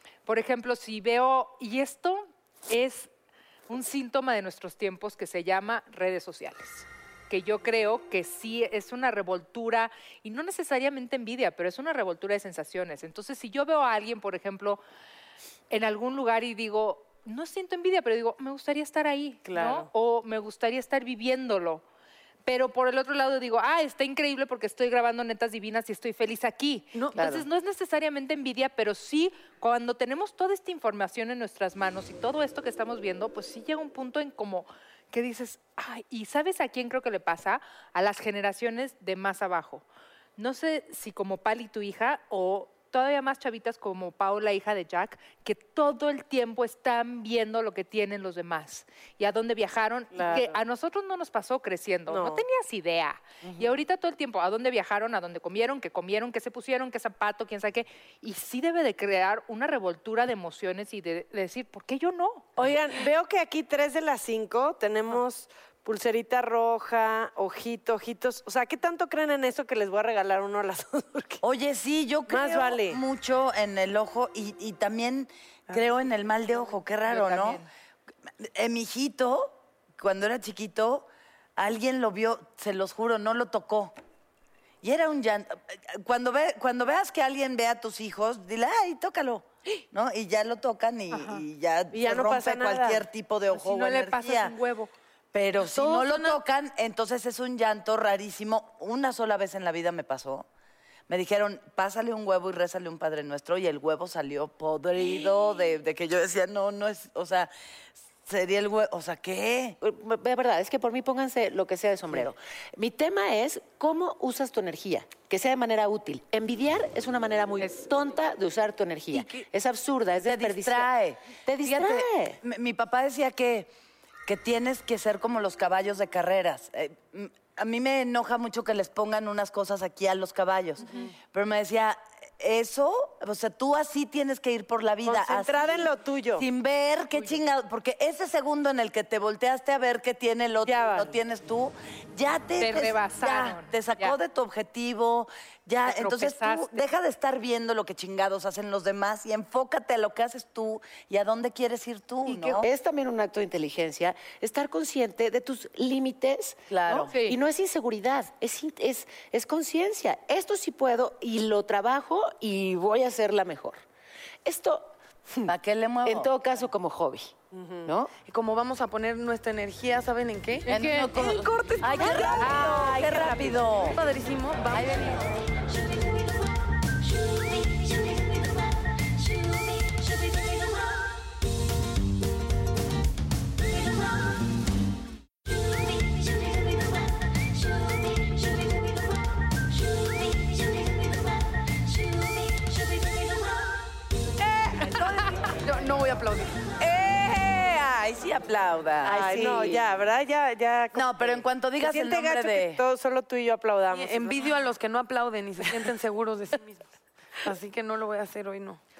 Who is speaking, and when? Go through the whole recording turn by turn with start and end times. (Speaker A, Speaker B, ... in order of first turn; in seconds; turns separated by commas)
Speaker A: 0.2-3.1, Speaker A: 3.7-14.8, Speaker A: 15.7-21.8, Speaker B: 19.5-19.9, Speaker A: 22.4-39.8, Speaker C: 27.1-27.4, Speaker A: 40.4-62.5, Speaker B: 50.1-50.5, Speaker B: 52.1-52.4, Speaker B: 62.5-71.4, Speaker D: 71.4-77.6, Speaker B: 72.3-73.0, Speaker A: 77.1-77.6, Speaker D: 78.4-83.9, Speaker D: 84.8-94.5, Speaker A: 91.1-91.4, Speaker B: 91.9-93.0, Speaker A: 93.5-94.9, Speaker D: 95.3-100.5, Speaker B: 96.0-96.3, Speaker D: 101.1-107.5, Speaker D: 108.2-109.8, Speaker C: 109.8-120.9, Speaker A: 117.6-117.9, Speaker D: 120.2-123.7, Speaker C: 121.4-122.4, Speaker D: 124.2-152.7, Speaker B: 135.0-136.4, Speaker B: 140.7-141.1, Speaker A: 142.6-144.2, Speaker A: 145.8-146.9, Speaker A: 152.2-152.6, Speaker C: 152.6-163.8, Speaker D: 156.7-157.1, Speaker A: 157.1-157.4, Speaker C: 164.4-165.5, Speaker D: 165.5-166.3, Speaker C: 166.0-167.3, Speaker B: 167.5-167.9, Speaker C: 167.8-168.1, Speaker E: 168.2-170.7, Speaker D: 170.7-174.0, Speaker B: 171.2-173.7, Speaker E: 171.3-173.2, Speaker E: 173.8-175.2, Speaker D: 174.7-175.2, Speaker E: 194.5-196.7, Speaker D: 196.8-199.7, Speaker B: 199.0-204.5, Speaker D: 200.9-202.8, Speaker E: 203.9-206.8, Speaker E: 207.4-208.8